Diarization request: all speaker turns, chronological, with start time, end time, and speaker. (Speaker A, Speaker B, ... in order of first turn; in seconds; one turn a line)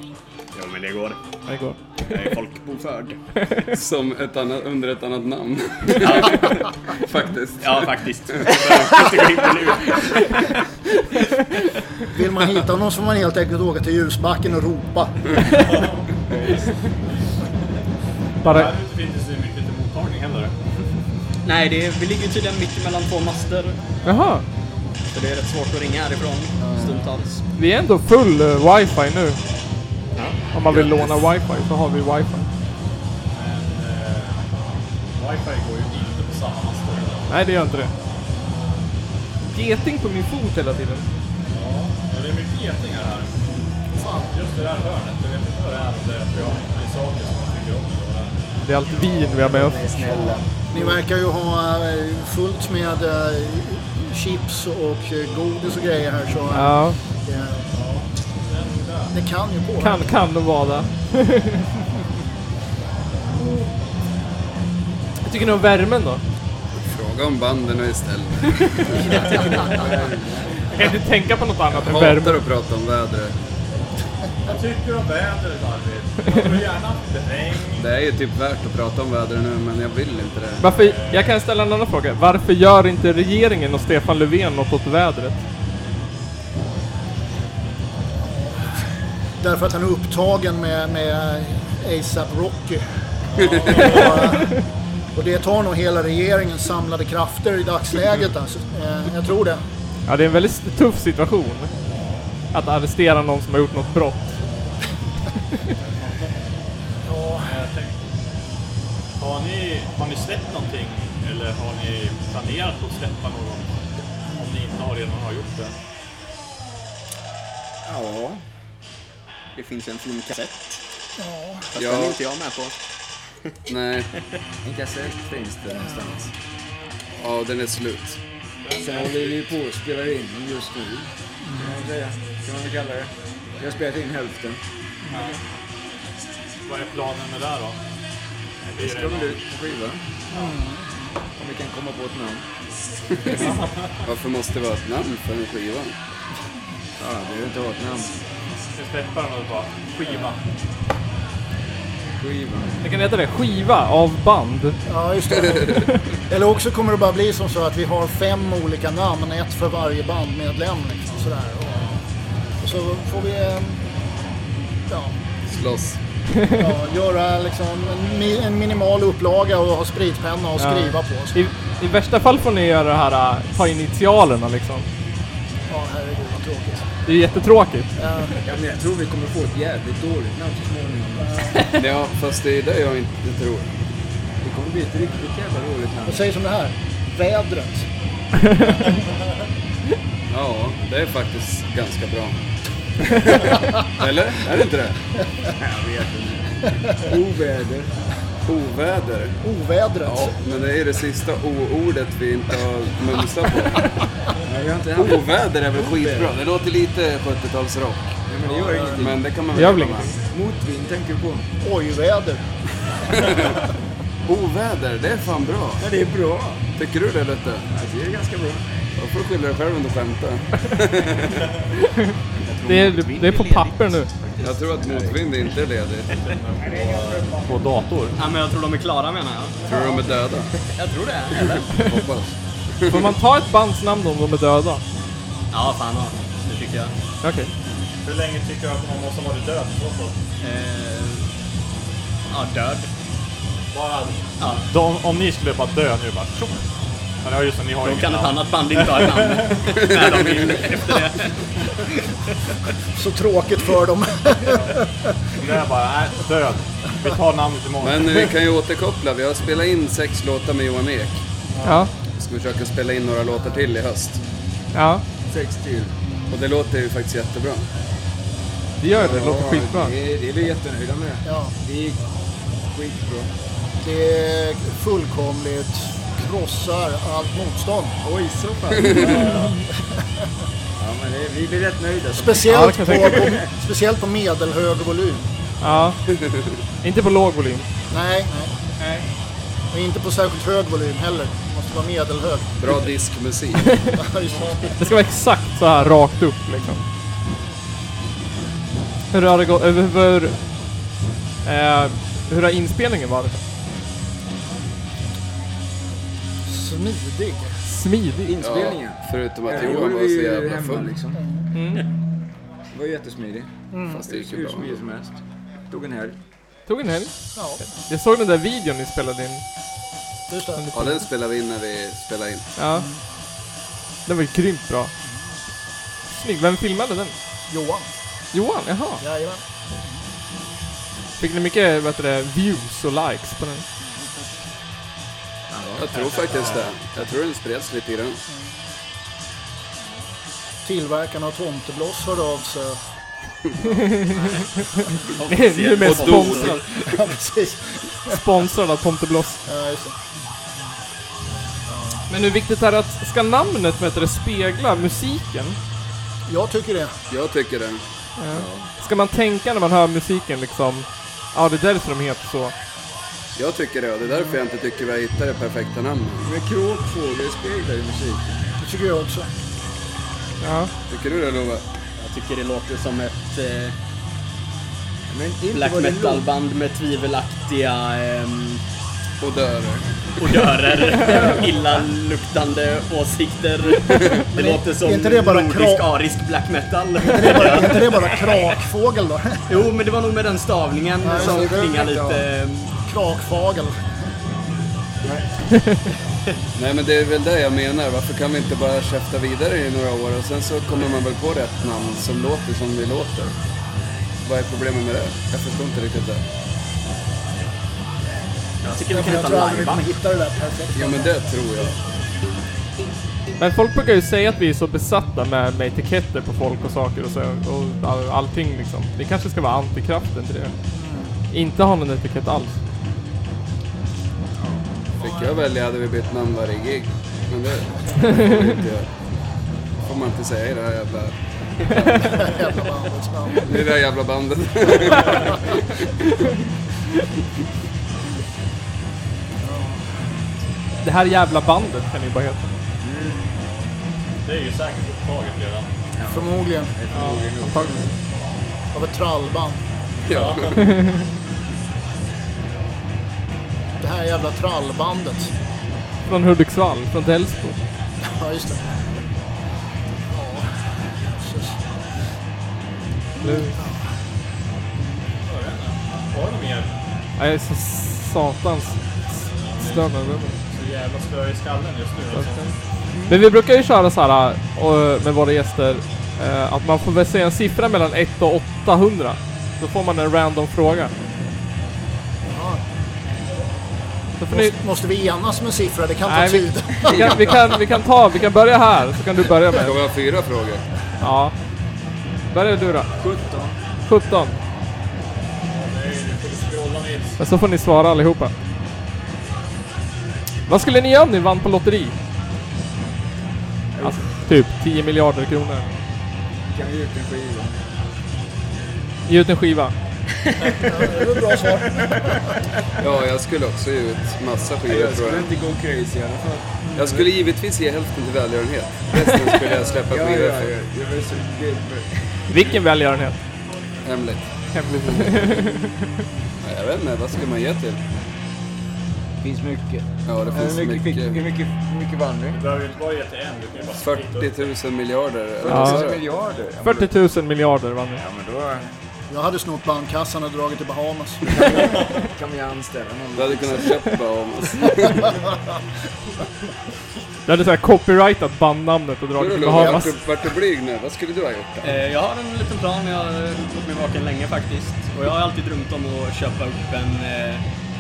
Speaker A: 0.5-1.2
Speaker B: 1.5-2.1
Speaker A: 2.1-3.2
Speaker B: 3.4-3.7
Speaker C: 3.7-8.6
Speaker A: 6.0-6.7
Speaker A: 7.6-10.4
Speaker D: 12.1-15.4
Speaker E: 15.6-16.5
Speaker F: 16.3-16.6
Speaker E: 18.4-20.5
Speaker B: 18.4-18.7
Speaker A: 21.4-23.8
Speaker B: 24.1-24.4
Speaker A: 25.1-27.4
Speaker F: 26.6-27.0
Speaker B: 27.6-29.4
Speaker A: 30.2-30.9
Speaker B: 30.5-32.5
Speaker E: 33.3-34.5
Speaker E: 35.1-37.3
Speaker B: 37.3-37.9
Speaker B: 39.5-41.1
Speaker E: 41.5-43.4
Speaker D: 44.0-44.3
Speaker E: 44.3-48.3
Speaker B: 48.6-50.1
Speaker F: 49.3-51.0
Speaker D: 50.7-57.6
Speaker B: 56.5-57.0
Speaker E: 57.7-59.1
Speaker D: 59.1-60.1
Speaker B: 59.8-61.7
Speaker B: 65.2-66.2
Speaker C: 66.8-69.2
Speaker F: 69.7-70.5
Speaker B: 70.7-72.4
Speaker C: 71.7-73.4
Speaker E: 74.5-77.9
Speaker C: 77.8-80.7
Speaker B: 80.6-85.4
Speaker E: 80.7-81.3
Speaker D: 89.4-92.8
Speaker E: 93.3-94.4
Speaker C: 93.4-93.7
Speaker D: 93.7-94.6
Speaker D: 95.2-99.6
Speaker B: 100.1-101.7
Speaker B: 102.5-104.2
Speaker E: 105.8-106.4
Speaker D: 107.1-107.5
Speaker E: 107.3-108.0
Speaker E: 109.2-113.7
Speaker E: 114.4-115.7
Speaker F: 117.8-118.4
Speaker A: 119.6-120.6
Speaker D: 121.2-121.7
Speaker A: 121.7-122.7
Speaker C: 121.8-122.2
Speaker C: 123.7-124.1
Speaker F: 124.6-126.3
Speaker D: 125.8-126.2
Speaker C: 127.2-128.2
Speaker E: 128.6-129.5
Speaker F: 128.8-134.6
Speaker D: 131.4-131.8
Speaker E: 135.1-135.4
Speaker E: 136.7-137.8
Speaker F: 138.7-140.0
Speaker E: 138.7-139.4
Speaker D: 140.3-141.0
Speaker F: 141.4-142.4
Speaker E: 143.3-143.9
Speaker C: 144.0-146.0
Speaker F: 147.0-148.2
Speaker E: 148.7-150.4
Speaker F: 152.2-152.8
Speaker B: 152.8-154.8
Speaker D: 154.9-161.9
Speaker C: 155.4-155.8
Speaker D: 162.6-163.8
Speaker D: 164.9-165.1
Speaker C: 165.5-166.0
Speaker B: 166.3-166.6
Speaker D: 166.6-171.4
Speaker B: 170.6-174.9
Speaker D: 175.7-176.9
Speaker B: 177.1-177.9
Speaker D: 178.0-178.3
Speaker F: 178.4-181.4
Speaker D: 181.2-181.6
Speaker C: 181.7-183.7
Speaker F: 184.4-186.2
Speaker D: 186.1-187.9
Speaker C: 190.3-192.4
Speaker C: 193.1-195.0
Speaker F: 195.6-197.9
Speaker C: 198.5-199.4
Speaker D: 199.4-200.3
Speaker C: 200.1-203.9
Speaker F: 204.4-206.3
Speaker C: 204.9-208.1
Speaker F: 208.3-209.2
Speaker C: 208.9-210.1
Speaker B: 209.5-210.1
Speaker F: 210.2-211.4
Speaker D: 211.6-212.4
Speaker C: 214.3-215.8
Speaker F: 215.8-216.6
Speaker C: 216.8-217.7
Speaker F: 217.7-218.7
Speaker C: 219.0-221.5
Speaker A: 222.4-223.8
Speaker B: 222.7-224.1
Speaker C: 224.4-226.1
Speaker F: 224.9-225.2
Speaker E: 226.1-228.2
Speaker F: 226.6-227.5
Speaker A: 228.2-229.7
Speaker C: 229.7-230.6
Speaker A: 230.7-231.7
Speaker C: 231.4-233.1
Speaker B: 232.9-234.8
Speaker A: 235.5-236.9
Speaker B: 237.2-237.5
Speaker E: 238.0-240.2
Speaker A: 240.4-241.3
Speaker A: 242.3-242.9
Speaker E: 243.7-246.6
Speaker A: 244.4-244.7
Speaker E: 247.2-249.7
Speaker A: 247.8-252.1
Speaker C: 249.8-250.5
Speaker D: 252.9-254.9
Speaker E: 255.4-258.4
Speaker C: 257.8-261.2
Speaker B: 261.6-261.9
Speaker C: 262.2-264.2
Speaker B: 264.7-265.0
Speaker F: 265.3-265.9
Speaker C: 266.3-267.7
Speaker B: 268.8-269.9
Speaker F: 268.9-272.0
Speaker C: 269.0-269.6
Speaker D: 271.2-271.5
Speaker F: 272.7-273.3
Speaker D: 273.8-277.9
Speaker F: 278.0-279.3
Speaker D: 278.9-279.6
Speaker E: 279.0-279.5
Speaker F: 280.8-283.5
Speaker D: 282.2-285.3
Speaker B: 282.5-283.4
Speaker B: 285.6-286.0
Speaker C: 286.1-286.5
Speaker B: 286.8-287.7
Speaker D: 287.9-288.5
Speaker D: 289.7-292.5
Speaker C: 292.6-293.7
Speaker D: 293.9-294.7
Speaker B: 294.8-296.8
Speaker B: 299.1-300.4
Speaker B: 301.4-303.4
Speaker D: 306.5-307.6
Speaker B: 307.7-308.4
Speaker F: 308.2-311.2
Speaker C: 308.4-310.9
Speaker B: 311.5-311.8
Speaker F: 312.7-313.5
Speaker D: 313.7-314.1
Speaker C: 313.9-314.7
Speaker F: 314.1-315.1
Speaker F: 315.7-316.2
Speaker B: 316.7-319.4
Speaker D: 317.4-317.6
Speaker D: 320.3-320.6
Speaker B: 320.6-321.0
Speaker C: 320.7-322.5
Speaker B: 322.6-322.9
Speaker D: 322.7-323.0
Speaker B: 324.1-324.9
Speaker B: 326.1-327.1
Speaker D: 327.5-327.9
Speaker B: 328.3-329.0
Speaker D: 329.0-329.9
Speaker B: 331.2-333.6
Speaker F: 335.5-335.9
Speaker C: 335.7-338.2
Speaker E: 335.9-336.7
Speaker D: 340.6-342.8
Speaker B: 343.7-344.4
Speaker A: 344.2-344.4
Speaker A: 345.0-346.6
Speaker B: 345.2-346.6
Speaker C: 345.8-346.5
Speaker D: 346.8-348.1
Speaker B: 348.1-349.4
Speaker D: 349.5-350.0
Speaker D: 351.7-352.0
Speaker B: 352.1-355.6
Speaker D: 356.3-356.9
Speaker C: 357.1-357.8
Speaker B: 358.2-362.5
Speaker F: 358.3-358.7
Speaker C: 363.4-366.3
Speaker F: 366.2-368.4
Speaker D: 368.6-369.3
Speaker B: 370.4-370.7
Speaker C: 370.9-371.6
Speaker A: 372.0-373.7
Speaker F: 375.1-376.2
Speaker A: 375.5-378.6
Speaker C: 379.2-379.9
Speaker A: 380.2-388.5
Speaker F: 381.0-381.5
Speaker C: 383.9-384.2
Speaker D: 384.3-385.9
Speaker D: 387.0-389.6
Speaker A: 389.5-392.7
Speaker D: 391.0-391.8
Speaker F: 391.1-392.2
Speaker D: 392.8-393.8
Speaker C: 396.6-403.4
Speaker C: 404.2-406.2
Speaker A: 408.6-409.9
Speaker D: 408.9-411.1
Speaker C: 410.8-411.8
Speaker B: 413.4-420.5
Speaker D: 420.7-421.1
Speaker B: 421.3-422.6
Speaker C: 425.0-428.9
Speaker B: 428.1-428.4
Speaker C: 429.8-432.3
Speaker D: 432.0-433.6
Speaker C: 433.4-435.6
Speaker D: 439.4-440.0
Speaker B: 440.8-442.5
Speaker F: 442.8-443.2
Speaker E: 444.2-445.7
Speaker F: 446.0-447.8
Speaker D: 446.1-446.8
Speaker E: 446.9-447.2
Speaker B: 447.3-447.8
Speaker D: 448.7-449.6
Speaker C: 450.1-450.6
Speaker E: 450.1-450.7
Speaker D: 453.8-455.3
Speaker B: 456.1-457.6
Speaker D: 458.1-458.6
Speaker D: 460.1-460.5
Speaker D: 461.2-461.6
Speaker B: 463.2-463.6
Speaker D: 463.2-463.5
Speaker E: 465.3-466.7
Speaker B: 467.2-468.8
Speaker E: 469.4-472.5
Speaker B: 469.6-470.3
Speaker B: 472.2-472.5
Speaker B: 473.1-480.9
Speaker D: 482.3-482.6
Speaker B: 484.2-484.6
Speaker D: 484.3-487.4
Speaker B: 486.1-489.8
Speaker C: 489.5-490.6
Speaker B: 491.0-491.3
Speaker B: 492.3-492.9
Speaker F: 493.0-493.6
Speaker B: 493.9-494.4
Speaker E: 495.5-497.2
Speaker B: 497.2-498.3
Speaker B: 500.5-502.0
Speaker B: 503.8-505.7
Speaker F: 506.5-507.6
Speaker B: 509.1-509.7
Speaker D: 510.7-511.9
Speaker F: 511.3-512.1
Speaker C: 512.8-515.3
Speaker F: 514.7-516.9
Speaker D: 516.6-516.9
Speaker C: 516.8-520.5
Speaker F: 519.9-522.2
Speaker B: 522.3-523.2
Speaker C: 523.8-525.3
Speaker B: 524.6-525.7
Speaker C: 526.4-527.8
Speaker F: 529.2-532.4
Speaker C: 530.1-531.2
Speaker E: 532.3-534.4
Speaker C: 533.8-536.0
Speaker F: 535.4-536.9
Speaker B: 535.5-535.8
Speaker B: 536.6-538.0
Speaker F: 538.0-538.7
Speaker D: 539.1-541.7
Speaker F: 541.3-543.8
Speaker C: 543.2-545.0
Speaker B: 547.3-550.0
Speaker C: 549.2-551.8
Speaker A: 551.6-557.4